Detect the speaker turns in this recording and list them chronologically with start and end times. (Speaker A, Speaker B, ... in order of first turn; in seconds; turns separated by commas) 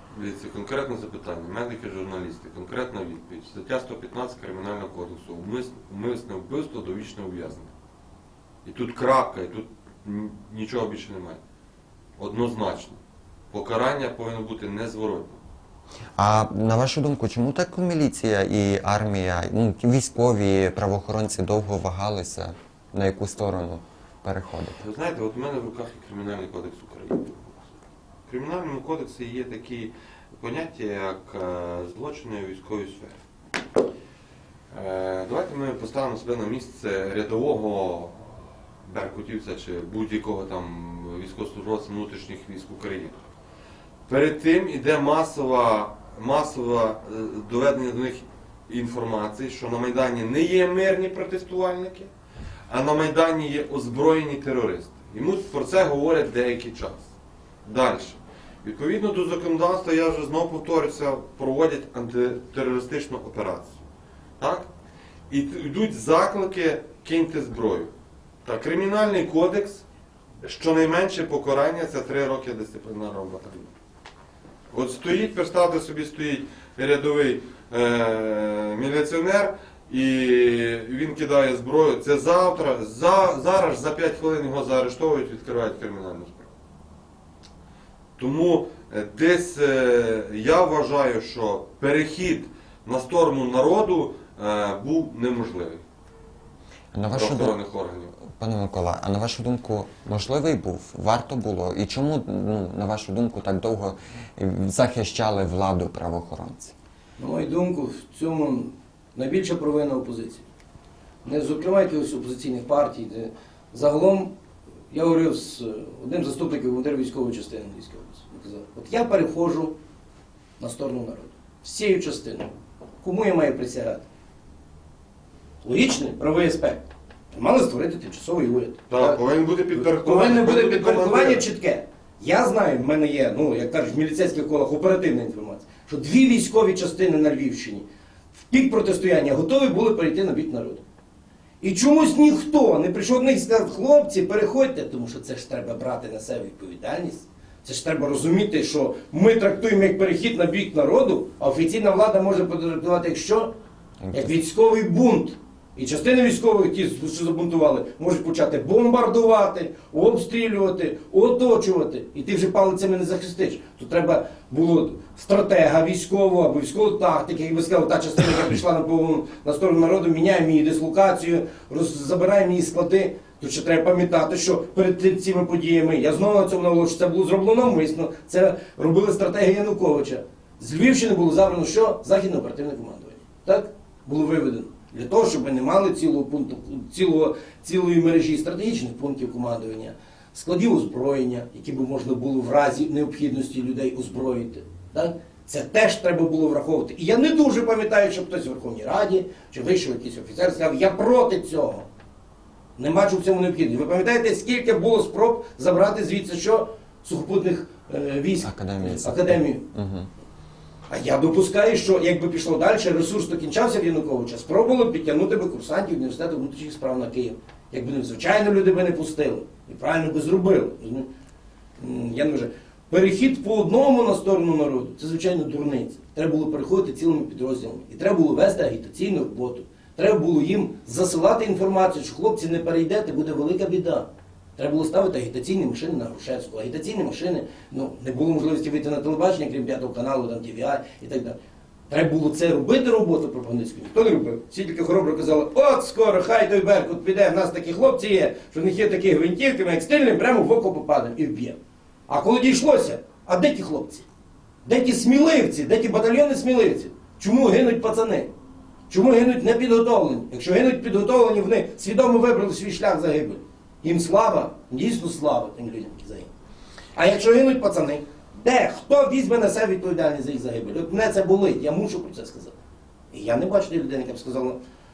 Speaker A: 0.1-7.7, Speaker A: 8.6-11.4, Speaker A: 12.2-13.0, Speaker A: 13.5-15.4, Speaker B: 16.2-24.8, Speaker A: 24.8-33.2, Speaker A: 34.7-43.2, Speaker A: 44.1-52.1, Speaker A: 52.7-57.1, Speaker A: 57.6-63.8, Speaker A: 64.4-64.7, Speaker A: 65.3-67.9, Speaker A: 68.5-69.8, Speaker A: 70.4-73.7, Speaker A: 74.7-86.5, Speaker A: 88.2-95.8, Speaker B: 96.9-97.6, Speaker A: 97.1-98.1, Speaker B: 98.2-106.7, Speaker C: 107.2-110.5, Speaker C: 111.2-114.3, Speaker C: 114.9-119.8, Speaker C: 120.6-122.5, Speaker C: 123.0-124.0, Speaker C: 125.6-129.2, Speaker A: 128.9-131.4, Speaker C: 129.7-137.8, Speaker C: 138.5-140.8, Speaker C: 141.6-153.5, Speaker B: 154.1-154.3, Speaker C: 154.1-201.9, Speaker C: 202.8-209.7, Speaker B: 208.4-210.1, Speaker C: 210.9-221.1, Speaker C: 221.8-241.4, Speaker C: 241.9-251.6, Speaker C: 252.1-254.1, Speaker C: 254.7-258.3, Speaker C: 258.9-266.3, Speaker C: 266.9-272.5, Speaker C: 273.1-274.6